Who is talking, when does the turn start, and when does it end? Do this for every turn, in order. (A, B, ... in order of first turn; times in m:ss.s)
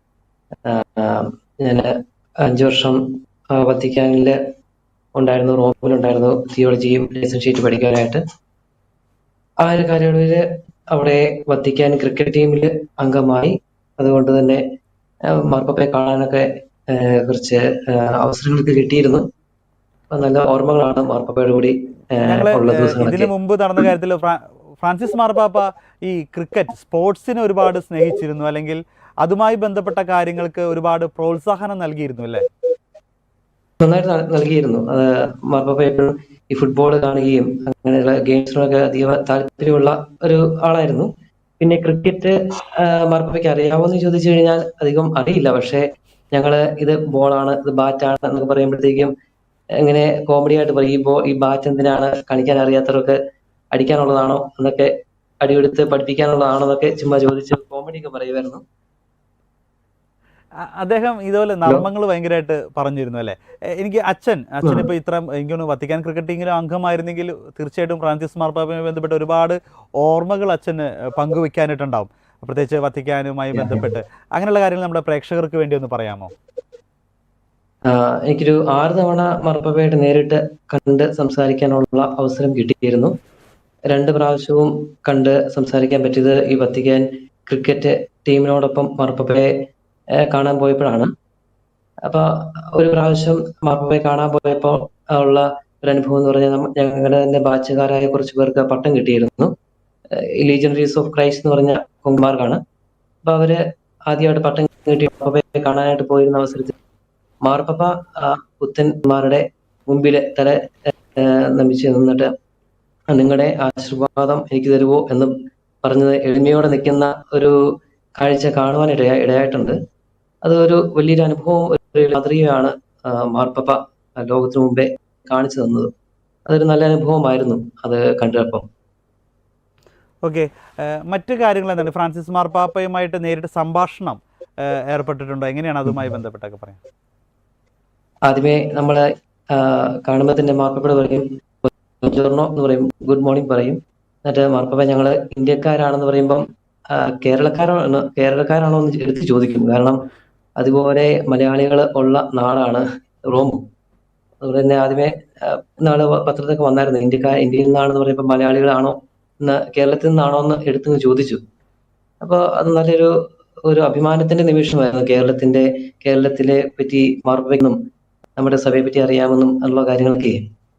0:00.6-0:01.9 A
0:02.4-0:03.0 A
0:03.5-0:04.4 A
0:05.2-0:08.2 A
0:09.6-0:14.6 A
0:15.4-0:19.2 A
0:20.1-0:23.3 A
0:22.2-0:32.4 B
0:33.8-0:41.1 A
0:41.6-0:49.1 A
0:49.8-0:53.2 A
0:53.7-0:58.6 A
1:00.8-1:16.3 B
1:13.5-1:13.9 A
1:17.9-1:23.1 A
1:23.9-1:29.5 A
1:30.2-1:31.1 A
1:32.0-1:39.5 A
1:40.4-1:42.6 A
1:43.2-1:46.7 A
1:47.4-1:52.3 A
1:53.1-1:55.3 A
1:55.8-1:57.6 A
1:58.2-1:59.7 A
2:00.4-2:05.9 A
2:06.5-2:08.6 A
2:10.2-2:16.8 B
2:18.3-2:30.0 A
2:30.6-2:33.6 A
2:34.4-2:41.4 A
2:42.2-2:43.1 A
2:43.6-2:47.8 A
2:48.4-2:50.4 A